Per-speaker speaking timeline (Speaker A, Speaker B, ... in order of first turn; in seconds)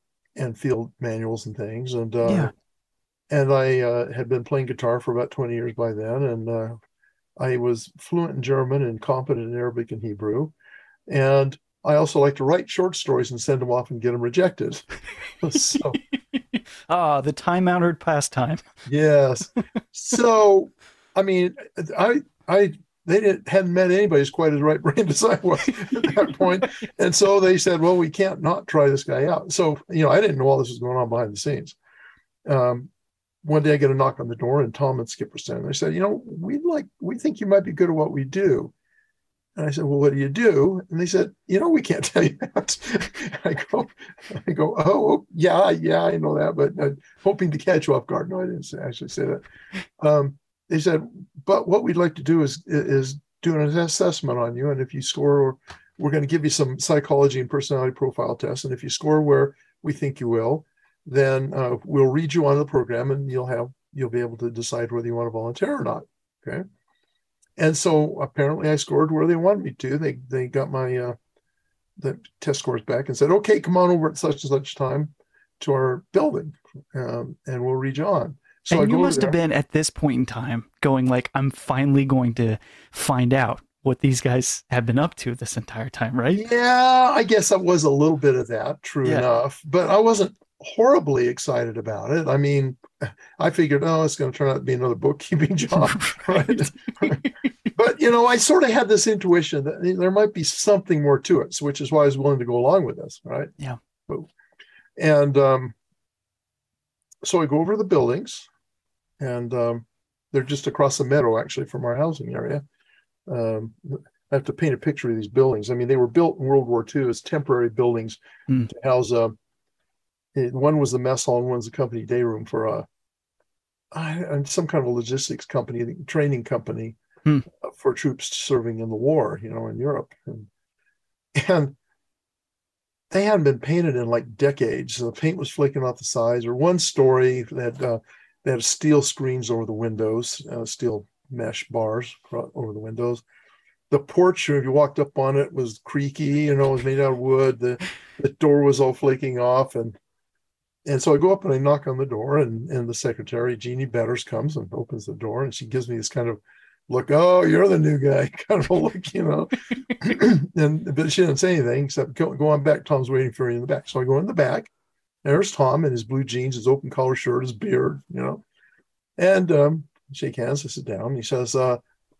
Speaker A: 0.3-2.5, 3.3-6.8, 7.4-10.5, 11.1-14.9, 15.4-16.0, 18.9-31.8, 32.4-32.9, 33.4-38.7, 39.5-49.4, 50.0-66.6, 67.6-71.2, 72.0-79.4, 86.3-103.5, 105.0-105.8, 107.2-108.5, 109.2-112.6, 113.3-119.3, 120.3-122.8, 123.9-127.0, 127.5-130.5, 131.3-131.8, 133.1-143.2, 143.9-150.0, 150.8-164.7, 165.2-168.4, 169.2-171.8
Speaker B: 2.2-2.5, 16.3-18.7, 78.7-86.5, 95.7-97.5